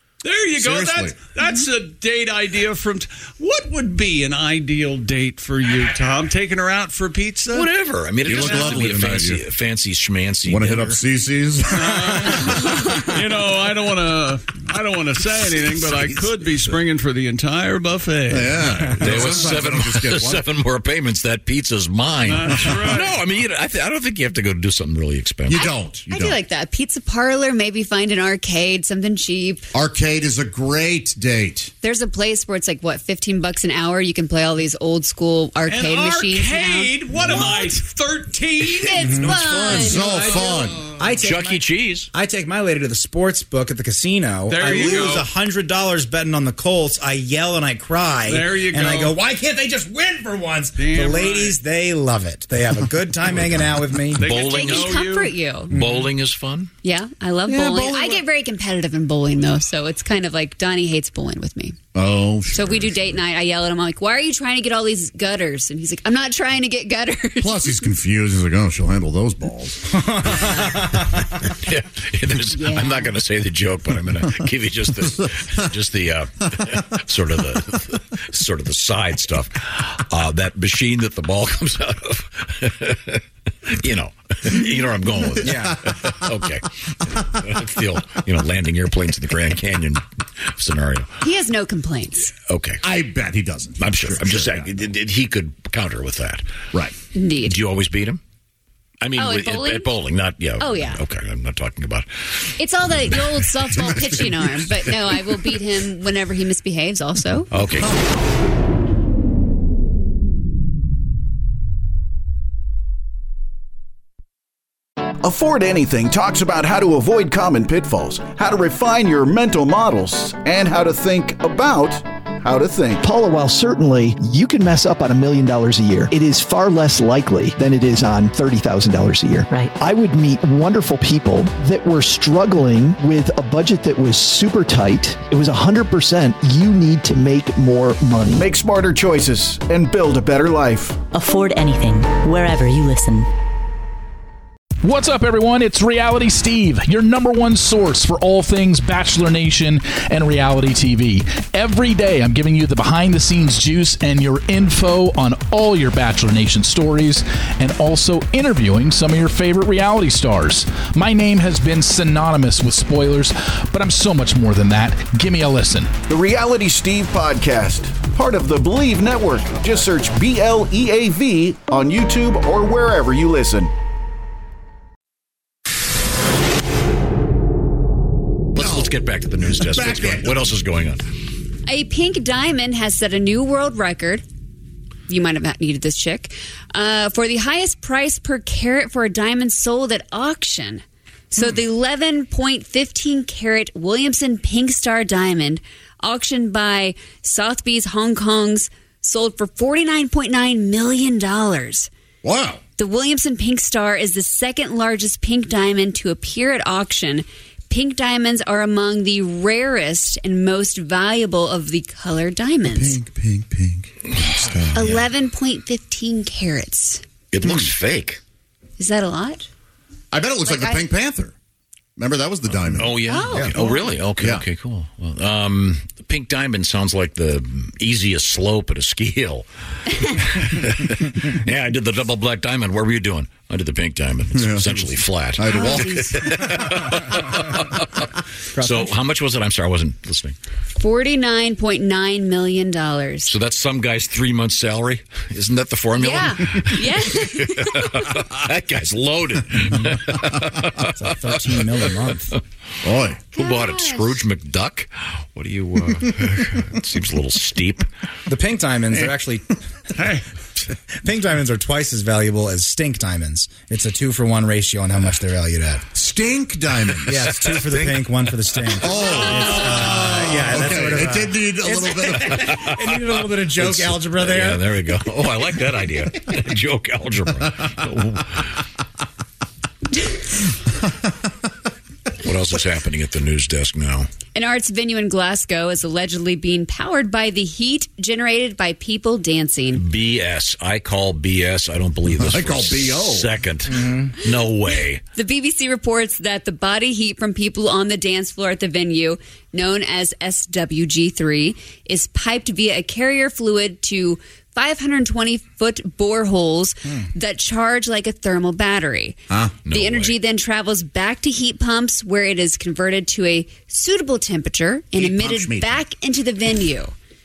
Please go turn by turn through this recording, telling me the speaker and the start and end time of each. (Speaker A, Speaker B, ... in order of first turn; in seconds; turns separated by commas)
Speaker A: 0.2-7.7, Speaker B: 0.5-1.1, Speaker C: 7.5-11.0, Speaker B: 8.2-9.4, Speaker B: 10.4-11.8, Speaker A: 11.7-19.4, Speaker B: 18.3-20.4, Speaker C: 19.0-25.6, Speaker A: 22.2-23.2, Speaker B: 25.4-26.4, Speaker D: 25.5-29.6, Speaker B: 29.7-31.7, Speaker D: 31.8-37.7, Speaker A: 35.6-39.0, Speaker D: 38.8-40.1, Speaker E: 39.0-54.3, Speaker C: 39.2-39.7, Speaker B: 39.7-40.9, Speaker C: 41.2-42.1, Speaker A: 44.5-45.3, Speaker A: 48.2-49.2, Speaker A: 50.7-51.6, Speaker C: 53.4-53.6, Speaker A: 54.1-55.4, Speaker C: 54.2-54.9, Speaker D: 54.3-55.7, Speaker C: 55.7-56.7, Speaker E: 55.7-56.0, Speaker D: 56.8-61.8, Speaker B: 57.5-58.2, Speaker B: 61.9-63.2, Speaker D: 62.5-67.7, Speaker B: 67.4-69.8, Speaker E: 70.3-70.7, Speaker C: 71.5-91.1, Speaker D: 72.5-73.1, Speaker B: 75.0-75.7, Speaker E: 85.4-85.7, Speaker D: 91.2-92.3, Speaker C: 92.5-92.8, Speaker B: 92.8-94.7, Speaker C: 93.8-96.4, Speaker D: 97.1-97.6, Speaker C: 97.4-98.2, Speaker C: 99.0-103.2, Speaker D: 99.2-99.9, Speaker D: 100.6-101.0, Speaker D: 102.6-107.5, Speaker C: 103.8-104.3, Speaker C: 107.5-108.0, Speaker F: 115.2-123.0, Speaker G: 123.0-138.4, Speaker F: 138.3-141.0, Speaker H: 141.1-143.2, Speaker I: 144.8-165.9, Speaker F: 166.1-173.7, Speaker C: 178.5-181.0, Speaker B: 178.6-178.9, Speaker B: 179.6-180.4, Speaker D: 181.7-184.2, Speaker D: 185.1-201.9, Speaker B: 202.2-202.6, Speaker D: 202.8-213.0, Speaker B: 212.6-214.9, Speaker C: 214.7-215.1, Speaker D: 214.7-217.0, Speaker C: 217.3-218.2, Speaker B: 217.4-217.7, Speaker D: 218.8-219.5, Speaker B: 220.1-221.3, Speaker D: 220.4-220.8, Speaker B: 222.0-223.1, Speaker C: 222.7-240.3, Speaker D: 223.1-223.9, Speaker B: 224.2-224.4, Speaker B: 234.3-236.2, Speaker D: 235.4-236.2, Speaker E: 238.5-238.9, Speaker D: 240.7-243.3, Speaker C: 243.2-251.9, Speaker D: 246.0-247.9, Speaker E: 250.9-252.3, Speaker B: 252.8-253.2, Speaker D: 253.3-254.1, Speaker C: 253.3-257.9, Speaker E: 258.3-259.5, Speaker A: 260.0-260.2, Speaker E: 260.9-265.9, Speaker B: 265.9-268.0, Speaker E: 267.1-274.7, Speaker B: 268.7-272.3, Speaker C: 272.2-278.6, Speaker C: 282.2-284.1, Speaker D: 284.3-289.8, Speaker C: 289.7-295.0, Speaker B: 292.3-293.3, Speaker D: 295.1-309.2, Speaker B: 309.3-309.6, Speaker C: 309.6-310.1, Speaker D: 309.7-316.9, Speaker B: 314.9-315.8